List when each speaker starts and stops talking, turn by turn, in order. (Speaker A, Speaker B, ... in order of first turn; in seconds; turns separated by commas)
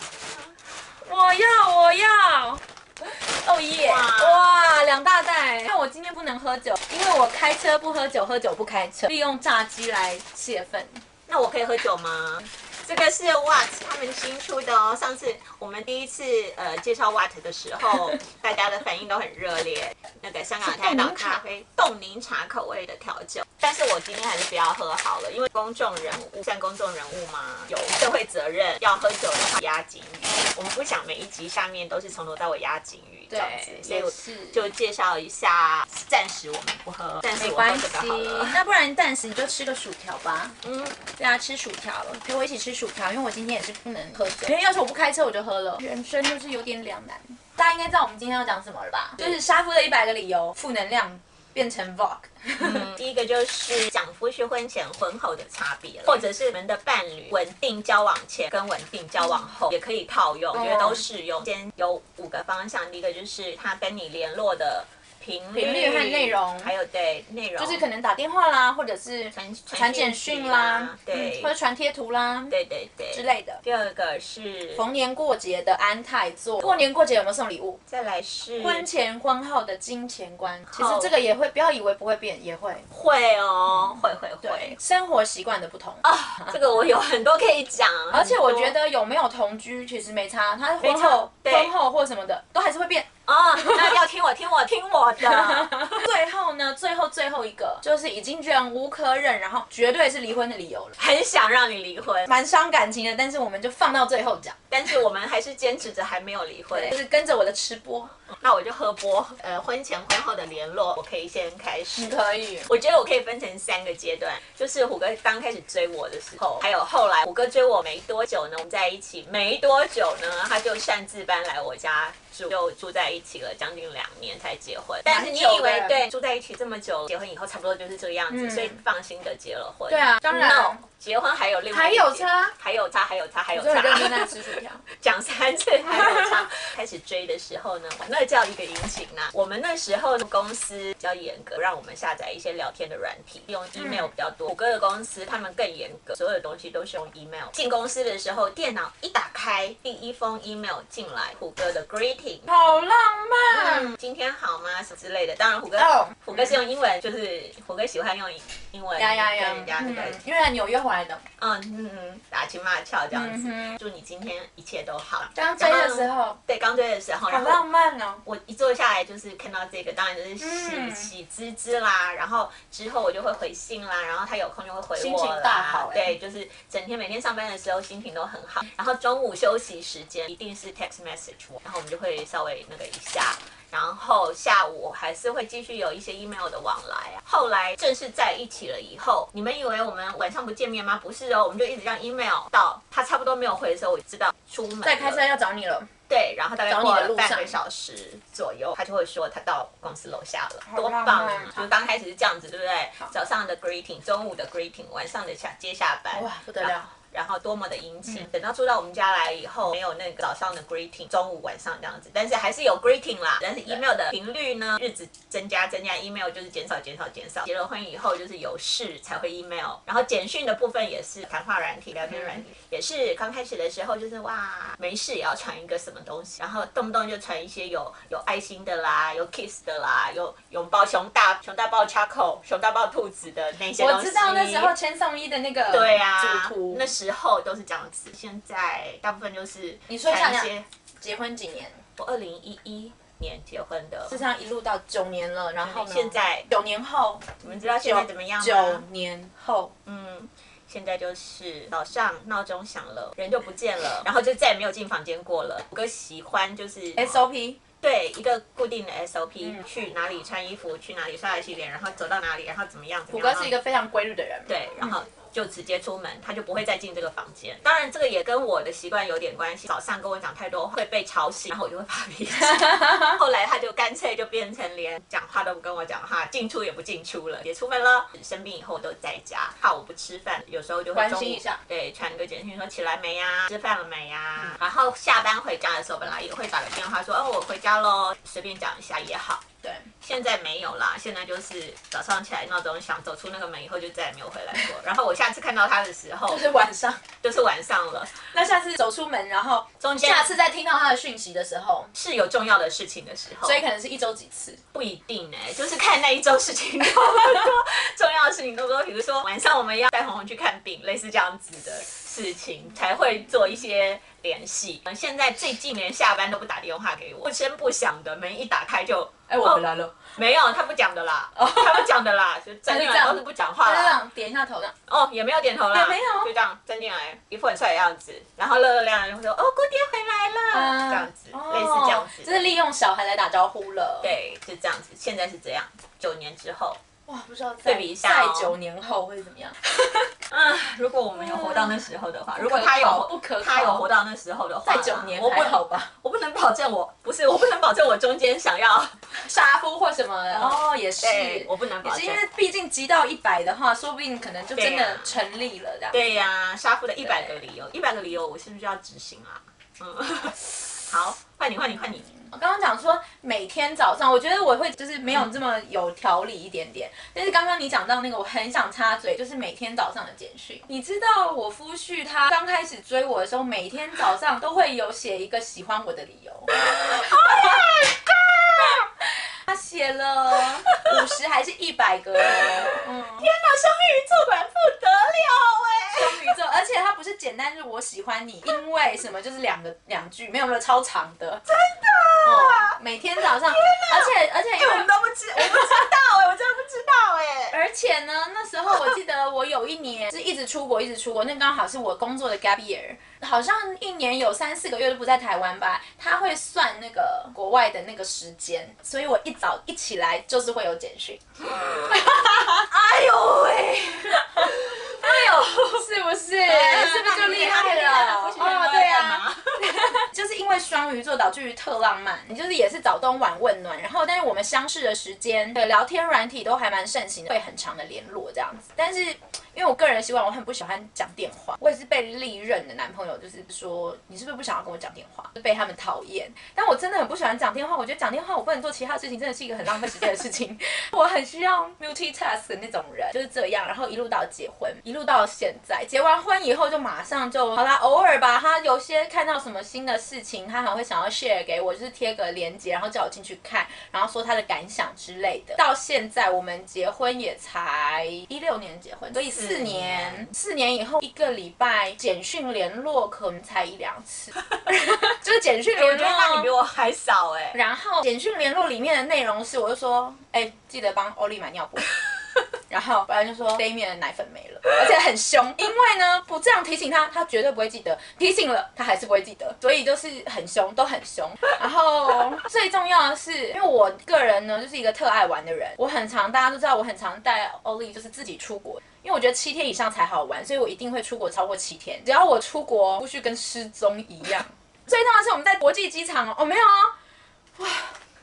Speaker A: 1.0-11.0, Speaker B: 3.7-4.5, Speaker B: 11.3-38.6, Speaker A: 20.6-21.4, Speaker A: 33.3-34.6, Speaker A: 37.4-52.9, Speaker B: 40.6-41.0, Speaker B: 52.6-67.8, Speaker A: 60.5-61.0, Speaker A: 65.5-66.7, Speaker A: 67.6-72.5, Speaker B: 69.3-71.5, Speaker B: 72.5-74.8, Speaker A: 73.1-73.6, Speaker A: 74.7-77.8, Speaker B: 77.9-78.8, Speaker A: 78.6-82.8, Speaker B: 80.7-81.1, Speaker B: 82.9-84.8, Speaker A: 83.8-86.8, Speaker B: 86.0-88.7, Speaker A: 88.1-94.0, Speaker B: 90.8-91.7, Speaker B: 93.3-96.0, Speaker A: 95.2-101.0, Speaker B: 101.0-102.3, Speaker A: 102.2-104.6, Speaker B: 104.7-107.0, Speaker A: 106.7-108.1, Speaker B: 108.3-134.4, Speaker A: 112.0-112.7, Speaker A: 125.0-126.0, Speaker A: 128.3-128.8, Speaker A: 129.9-130.8, Speaker A: 131.7-132.5, Speaker A: 133.5-134.8, Speaker B: 134.9-152.5, Speaker A: 143.8-144.1, Speaker A: 152.5-153.9, Speaker B: 153.5-160.2, Speaker A: 155.8-156.6, Speaker A: 158.9-161.2, Speaker B: 161.4-167.6, Speaker A: 163.1-163.8, Speaker A: 165.3-166.4, Speaker A: 167.3-168.2, Speaker B: 168.2-195.2, Speaker A: 170.4-171.1, Speaker A: 174.9-176.1, Speaker A: 194.8-195.9, Speaker B: 196.1-234.8, Speaker A: 196.7-197.6, Speaker A: 200.7-201.7, Speaker A: 206.1-206.9, Speaker A: 233.8-236.9, Speaker B: 235.7-240.7, Speaker A: 239.9-241.8, Speaker B: 242.0-244.2, Speaker A: 244.1-249.7, Speaker B: 245.6-246.5, Speaker B: 247.4-248.8, Speaker B: 249.8-257.2, Speaker A: 257.0-257.6, Speaker B: 257.8-263.6, Speaker A: 263.1-264.9, Speaker B: 264.5-289.4, Speaker A: 272.5-273.2, Speaker A: 280.9-281.6, Speaker A: 289.6-289.9, Speaker B: 290.0-296.4, Speaker A: 296.3-297.0, Speaker B: 297.2-298.3, Speaker A: 298.3-301.9, Speaker B: 299.8-300.3, Speaker B: 301.9-303.6, Speaker A: 303.4-304.6, Speaker B: 304.7-324.0, Speaker A: 319.3-320.1, Speaker A: 321.4-321.9, Speaker A: 322.7-324.7, Speaker B: 324.9-332.4, Speaker A: 325.7-326.3, Speaker A: 330.5-334.1, Speaker B: 334.0-336.8, Speaker A: 337.1-339.8, Speaker B: 337.6-338.6, Speaker B: 340.3-349.1, Speaker A: 341.1-343.9, Speaker A: 344.6-345.9, Speaker A: 349.2-356.2, Speaker B: 350.3-352.2, Speaker B: 354.6-355.1, Speaker B: 355.9-362.1, Speaker A: 357.0-357.4, Speaker A: 361.9-377.8, Speaker B: 376.5-378.9, Speaker A: 379.4-383.3, Speaker B: 380.4-381.1, Speaker B: 382.2-386.4, Speaker A: 385.9-391.4, Speaker B: 391.4-397.6, Speaker A: 392.2-395.9, Speaker A: 397.5-412.7, Speaker B: 411.4-415.9, Speaker A: 414.2-466.5, Speaker B: 416.4-420.0, Speaker B: 459.3-460.3, Speaker B: 465.7-467.6, Speaker A: 467.5-471.9, Speaker A: 472.7-496.9, Speaker A: 497.6-498.0